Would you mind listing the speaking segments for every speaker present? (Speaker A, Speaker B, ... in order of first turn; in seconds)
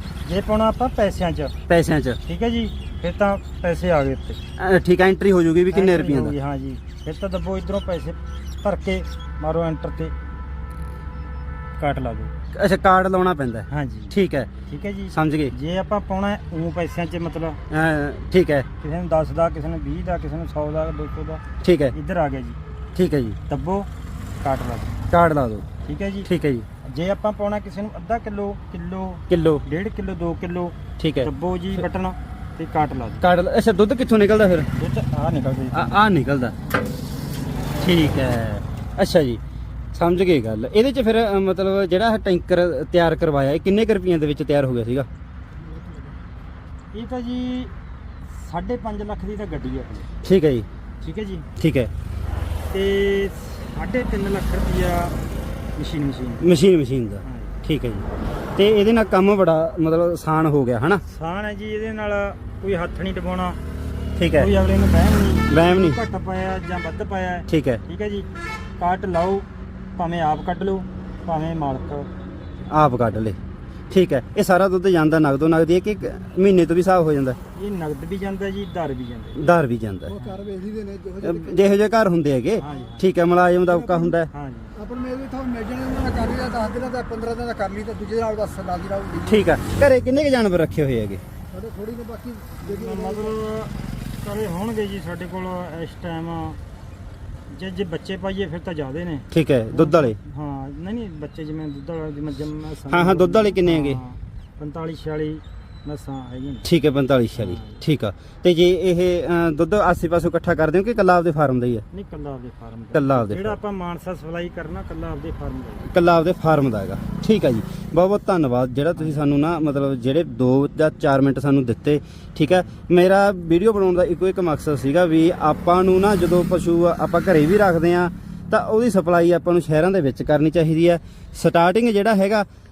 Speaker A: 0.2-1.6, 2.2-4.4, 5.7-10.1, 11.8-12.3, 13.7-14.2, 14.7-17.6, 18.8-22.6, 23.5-23.9, 24.4-25.0, 25.8-26.3, 26.8-33.2, 34.8-36.0, 46.9-47.7, 48.3-50.1, 51.0-51.5, 52.7-55.2, 55.8-56.5, 57.2-57.5, 61.1-63.6, 64.3-68.3, 68.8-69.5, 70.0-72.1, 77.5-79.4, 80.1-80.5, 82.6-83.0, 84.3-84.9, 92.6-96.6, 97.5-106.7, 107.4-107.8, 111.9-115.9, 119.0-119.2
Speaker B: 1.7-2.2, 4.6-6.3, 12.5-14.5, 15.1-15.5, 17.7-18.7, 21.6-21.9, 22.9-23.4, 25.1-25.7, 26.3-26.7, 29.3-29.6, 31.0-31.3, 33.2-34.7, 35.7-36.5, 37.8-39.4, 39.9-45.1, 50.2-50.7, 51.6-51.9, 56.4-61.0, 64.2-64.5, 65.5-66.0, 67.5-67.8, 72.7-73.4, 73.9-77.4, 79.4-80.2, 81.2-84.3, 89.2-91.2, 99.3-100.2, 102.9-104.0, 106.6-111.8, 112.9-113.6, 115.9-132.5
Speaker C: 80.3-81.2, 84.8-89.2, 91.5-92.7